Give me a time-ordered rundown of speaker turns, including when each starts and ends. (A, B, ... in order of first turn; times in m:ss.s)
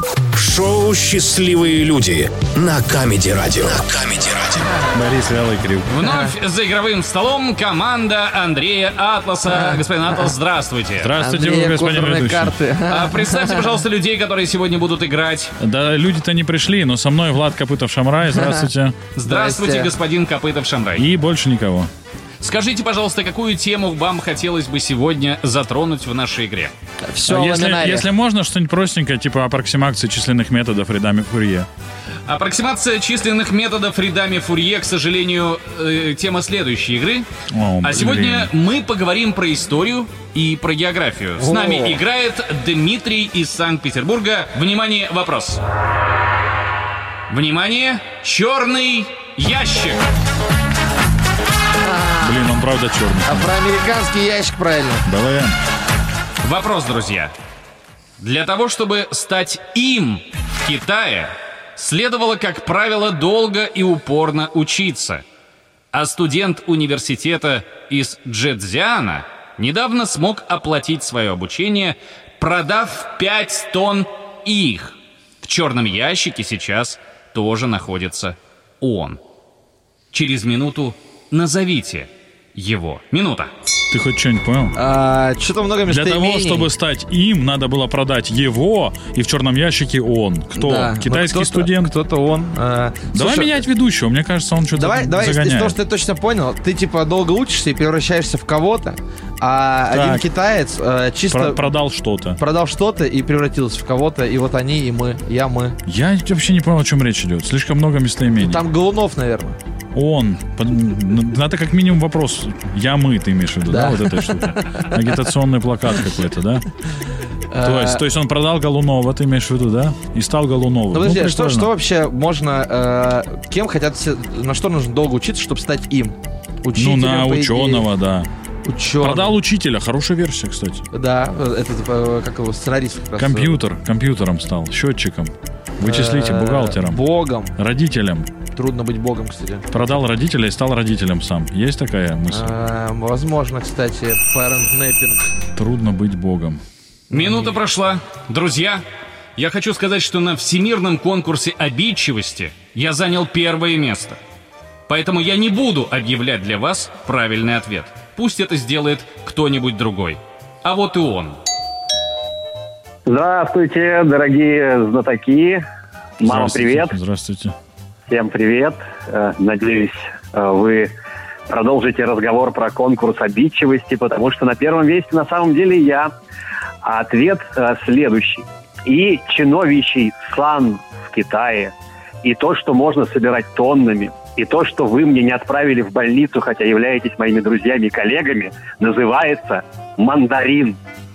0:00.3-0:04.6 A
0:04.9-0:05.9 B
0:05.9-0:11.1 C
0:11.0-0:12.6 B
0:11.2-0:13.6 D
0:12.9-0:15.5 C
0:15.6-0:19.0 B
0:19.2-0:19.9 D
0:19.2-0:21.0 C
0:21.0-0:21.9 B
0:22.4-0:26.7 C
0:27.1-0:28.1 D
0:27.3-0:31.7 B
0:32.3-0:37.2 C
0:37.5-0:38.5 B
0:37.8-0:45.6 C
0:41.4-0:42.0 D
0:47.3-0:50.0 C
0:51.8-0:52.3 D
0:52.2-0:53.5 B
0:53.3-0:55.0 D
0:55.0-0:55.6 B
0:56.4-0:57.3 C
0:58.2-1:05.2 C
1:05.9-1:19.2 C
1:20.1-1:23.5 C
1:23.9-1:24.8 B
1:24.8-1:26.7 D
1:25.9-1:31.9 B
1:30.6-1:33.6 D
1:33.1-1:35.8 B
1:34.8-1:41.7 D
1:39.9-1:40.3 B
1:41.3-1:42.4 B
1:42.4-1:45.8 D
1:45.9-1:48.6 B
1:48.4-1:49.6 D
1:49.9-1:56.7 B
1:53.7-1:54.8 D
1:57.5-1:58.0 D
1:57.6-2:01.7 B
2:00.9-2:07.9 D
2:06.7-2:08.3 B
2:08.6-2:09.3 D
2:09.0-2:10.8 B
2:10.9-2:13.6 D
2:13.2-2:17.0 B
2:15.8-2:17.5 D
2:17.6-2:18.3 B
2:18.5-2:19.7 D
2:19.7-2:22.5 B
2:22.3-2:25.3 D
2:25.6-2:26.6 B
2:27.1-2:28.8 C
2:27.1-2:27.5 D
2:29.4-2:34.2 C
2:34.9-2:41.4 C
2:43.1-2:45.6 E
2:46.2-2:46.9 E
2:46.2-2:47.6 B
2:48.1-2:50.9 E
2:51.5-2:56.1 E
2:56.8-3:10.8 E